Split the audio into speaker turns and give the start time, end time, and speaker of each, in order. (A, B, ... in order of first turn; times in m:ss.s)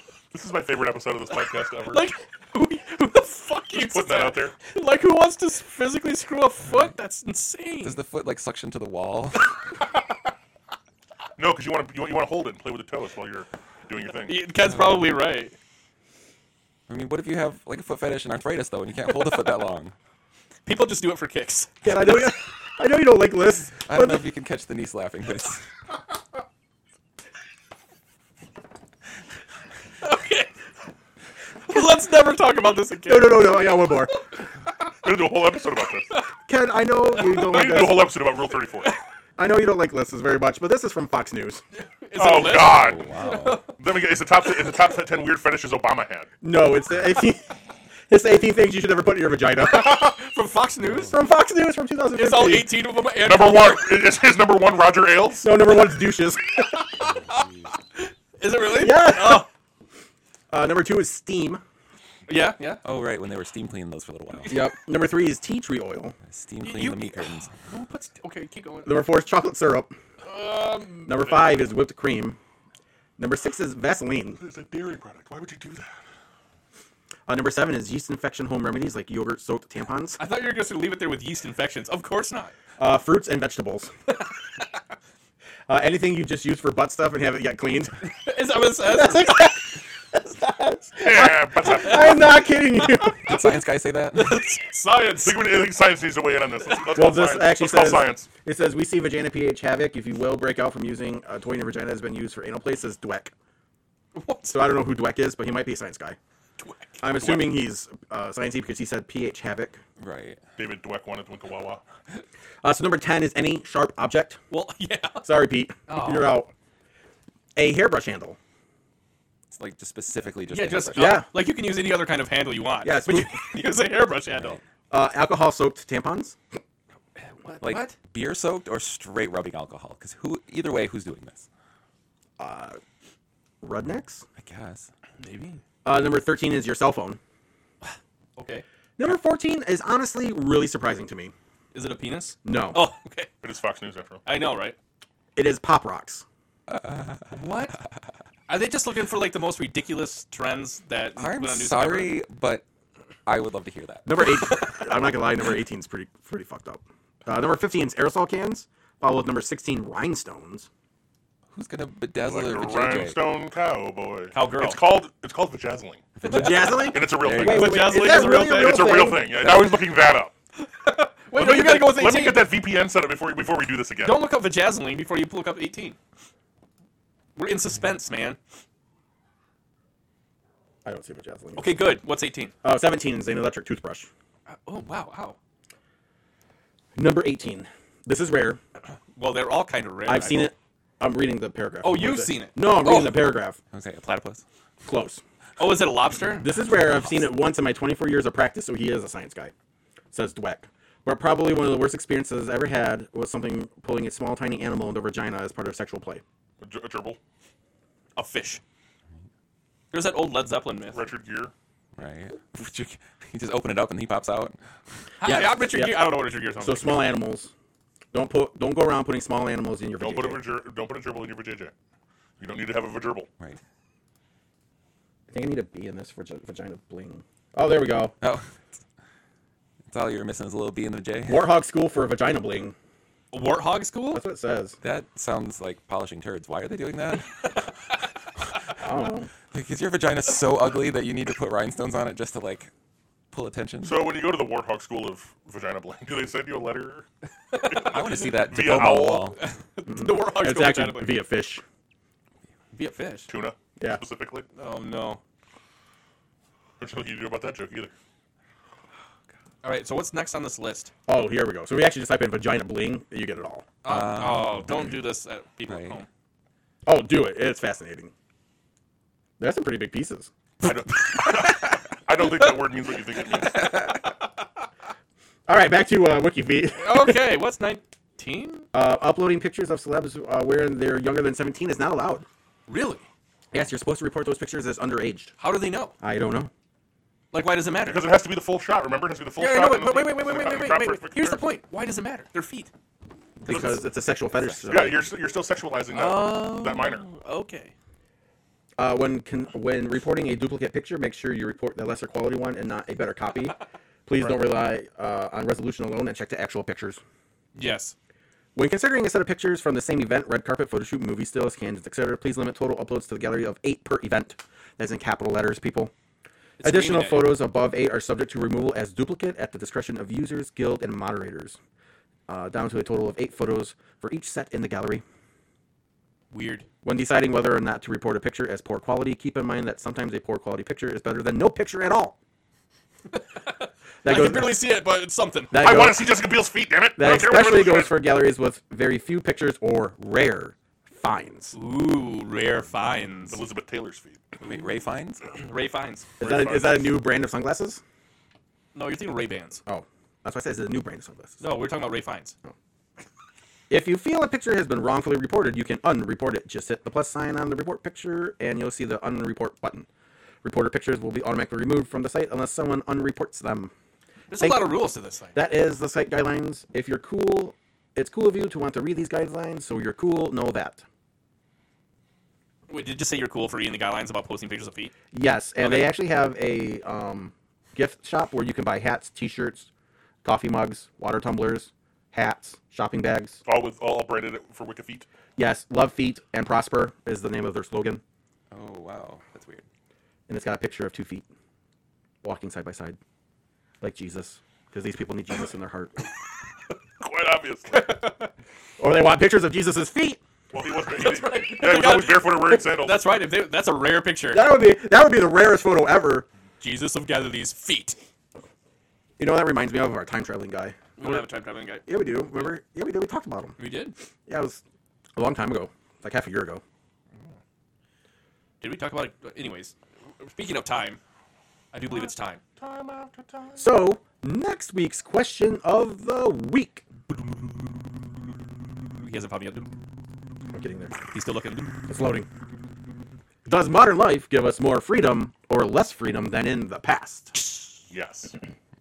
0:00.3-0:02.1 A
0:01.9-0:08.0 B
0:03.7-0:04.6 A
0:07.8-0:09.5 C
0:11.4-0:14.4 A
0:14.2-0:15.6 B
0:14.7-0:15.0 C
0:16.9-0:20.0 C
0:19.1-0:19.5 B
0:20.7-0:21.7 B
0:21.8-0:24.2 D
0:23.7-0:25.7 C
0:30.0-0:30.5 B
0:31.7-0:33.7 B
0:33.0-0:34.2 D
0:35.0-0:36.2 A
0:36.5-0:38.1 D
0:37.3-0:39.0 A
0:39.4-0:41.6 D
0:41.8-0:43.8 B
0:42.2-0:43.0 A
0:42.6-0:43.6 C
0:43.8-0:46.3 A
0:46.4-0:47.6 D
0:48.1-0:50.2 D
0:49.6-0:51.1 B
0:50.9-0:52.7 D
0:52.1-0:54.0 B
0:53.2-0:55.6 A
0:55.4-0:56.8 D
0:57.3-0:59.5 B
0:58.7-0:59.5 D
1:00.5-1:01.6 D
1:02.3-1:02.8 B
1:02.8-1:04.7 C
1:04.5-1:06.2 D
1:06.3-1:07.5 C
1:06.6-1:09.0 B
1:08.8-1:09.9 D
1:10.2-1:11.5 B
1:11.1-1:12.4 D
1:13.2-1:14.4 D
1:14.4-1:15.9 A
1:17.3-1:20.2 D
1:20.2-1:22.5 B
1:22.8-1:23.9 D
1:25.7-1:28.2 D
1:28.2-1:29.6 B
1:28.8-1:33.4 D
1:31.0-1:32.4 A
1:31.6-1:33.0 B
1:33.2-1:34.5 C
1:34.1-1:35.7 B
1:35.2-1:38.3 A
1:36.6-1:36.9 B
1:37.0-1:43.3 D
1:44.2-1:44.6 B
1:44.4-1:46.2 D
1:46.6-1:47.6 B
1:47.0-1:49.8 D
1:50.0-1:50.4 C
1:50.6-1:51.8 A
1:52.6-1:54.4 D
1:54.5-1:55.3 B
1:55.2-1:56.5 D
1:55.9-1:56.4 B
1:57.6-1:58.4 D
1:59.5-2:01.3 C
2:00.5-2:04.6 B
2:00.9-2:01.3 D
2:02.8-2:03.6 D
2:04.3-2:04.6 C
2:04.9-2:06.4 D
2:07.4-2:08.0 B
2:07.6-2:11.5 C
2:12.4-2:12.8 D
2:13.6-2:14.2 D
2:14.4-2:14.9 C
2:15.2-2:15.6 B
2:15.8-2:17.2 D
2:17.8-2:18.6 B
2:19.0-2:21.3 D
2:21.7-2:23.3 B
2:22.4-2:22.8 D
2:23.4-2:24.2 A
2:24.2-2:24.8 B
2:25.4-2:26.2 D
2:26.7-2:27.2 C
2:27.3-2:27.8 B
2:28.5-2:32.2 B
2:31.2-2:32.6 C
2:33.3-2:34.4 C
2:34.1-2:40.7 D
2:41.5-2:43.3 C
2:42.2-2:50.3 A
2:44.3-2:44.8 B
2:46.2-2:47.8 C
2:46.2-2:49.8 D
2:46.3-2:46.7 B
2:47.4-2:49.0 B
2:50.6-2:52.5 B
2:51.3-2:54.3 A
2:54.0-2:56.0 B
2:57.4-2:58.4 B
3:00.8-3:01.9 D
3:01.6-3:02.5 B
3:02.6-3:04.1 D
3:04.5-3:05.4 B
3:07.0-3:08.6 D
3:09.2-3:10.5 B
3:10.1-3:13.6 D
3:11.8-3:13.3 B
3:13.7-3:14.4 C
3:14.8-3:15.2 D
3:15.6-3:16.6 B
3:16.4-3:19.5 D
3:20.1-3:26.2 D
3:26.6-3:27.2 A
3:28.2-3:28.6 B
3:29.9-3:31.0 B
3:30.9-3:31.5 A
3:32.0-3:34.6 C
3:35.2-3:37.1 B
3:35.2-3:37.5 D
3:38.1-3:40.4 D
3:40.0-3:41.7 A
3:42.4-3:43.3 A
3:45.3-3:48.2 D
3:48.2-3:48.8 C
3:49.9-3:51.5 C
3:51.3-3:52.8 D
3:53.3-3:54.2 B
3:54.1-3:54.8 D
3:54.8-3:57.6 C
3:58.8-3:59.3 D
3:59.5-4:02.7 C
4:03.3-4:04.1 C
4:03.8-4:07.1 A
4:07.5-4:08.0 B
4:07.6-4:09.4 C
4:07.8-4:09.3 A
4:09.4-4:11.2 B
4:09.9-4:11.6 D
4:12.7-4:13.3 B
4:13.3-4:14.5 A
4:14.6-4:15.2 B
4:16.8-4:17.9 A
4:19.6-4:20.9 B
4:21.1-4:23.7 D
4:23.8-4:26.1 B
4:23.9-4:25.0 C
4:25.7-4:26.0 C
4:26.8-4:28.1 D
4:29.4-4:30.3 D
4:30.6-4:33.9 A
4:35.5-4:37.3 D
4:36.8-4:38.7 B
4:38.7-4:42.3 D
4:42.7-4:43.1 B
4:43.5-4:45.3 D
4:45.4-4:46.0 B
4:46.0-4:46.5 D
4:47.3-4:48.0 B
4:47.8-4:51.4 A
4:49.4-4:52.7 B
4:53.4-4:55.1 D
4:53.5-4:53.8 A
4:54.7-4:57.0 A
4:55.9-4:57.7 B
4:58.8-5:07.0 D
5:07.6-5:08.0 B
5:08.6-5:15.9 D
5:16.6-5:17.4 B
5:16.6-5:21.6 D
5:22.3-5:25.0 D
5:26.3-5:26.7 B
5:26.8-5:32.2 D
5:33.1-5:35.6 B
5:34.0-5:34.7 D
5:35.5-5:36.2 D
5:35.5-5:38.0 A
5:37.0-5:41.6 D
5:41.5-5:43.4 B
5:43.3-5:44.2 A
5:44.4-5:45.3 C
5:45.3-5:46.5 B
5:46.2-5:47.8 D
5:46.2-5:46.9 A
5:48.8-5:49.6 B
5:49.7-5:51.4 D
5:51.4-5:52.4 B
5:53.7-5:59.9 D
6:00.4-6:03.7 D
6:04.3-6:05.4 B
6:04.4-6:04.7 D
6:05.3-6:10.8 D
6:12.7-6:14.9 B
6:15.1-6:19.7 D
6:15.6-6:15.9 B
6:20.2-6:23.4 D
6:23.4-6:25.1 A
6:25.4-6:28.0 D
6:28.5-6:29.6 C
6:30.3-6:31.2 D
6:32.2-6:33.0 D
6:33.8-6:36.1 D
6:37.0-6:38.0 A
6:37.7-6:38.3 B
6:38.8-6:40.2 D
6:40.5-6:43.0 A
6:40.8-6:44.5 B
6:44.3-6:46.3 D
6:46.6-6:48.0 B
6:49.2-6:51.2 D
6:51.0-6:51.9 B
6:51.8-6:53.6 D
6:53.6-6:54.0 B
6:54.3-6:54.6 D
6:55.2-6:56.6 D
6:58.6-7:01.0 B
7:01.7-7:02.4 B
7:02.6-7:03.6 A
7:03.6-7:06.8 D
7:09.0-7:09.7 B
7:10.5-7:11.1 D
7:11.1-7:11.9 B
7:11.9-7:12.3 D
7:13.5-7:17.4 D
7:17.9-7:18.3 A